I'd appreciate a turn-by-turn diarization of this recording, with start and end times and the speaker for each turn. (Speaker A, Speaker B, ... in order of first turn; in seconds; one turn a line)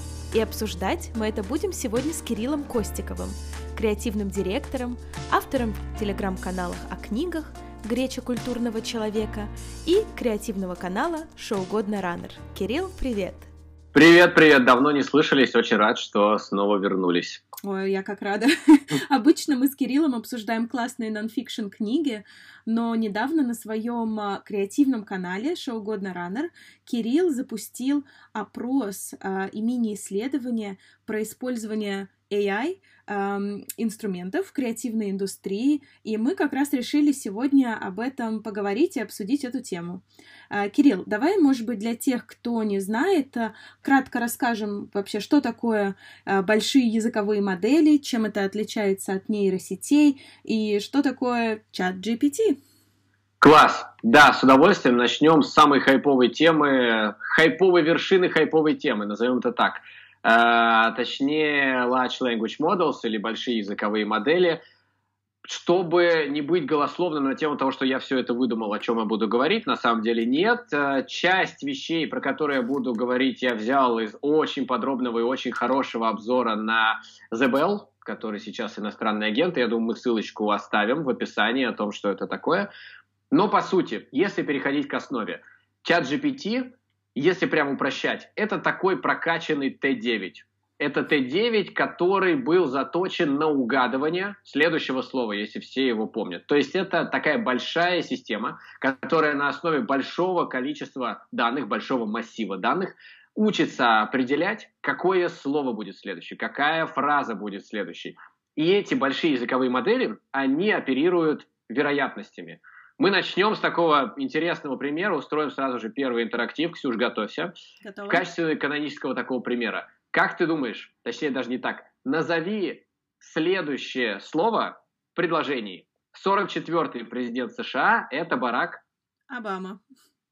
Speaker A: 0.3-13.5
Speaker B: 13.9-17.4
Speaker A: 17.6-52.6
Speaker B: 53.4-64.6
Speaker B: 65.5-82.7
Speaker B: 83.3-117.5
Speaker A: 117.8-118.2
Speaker B: 118.1-128.8
Speaker A: 129.3-129.8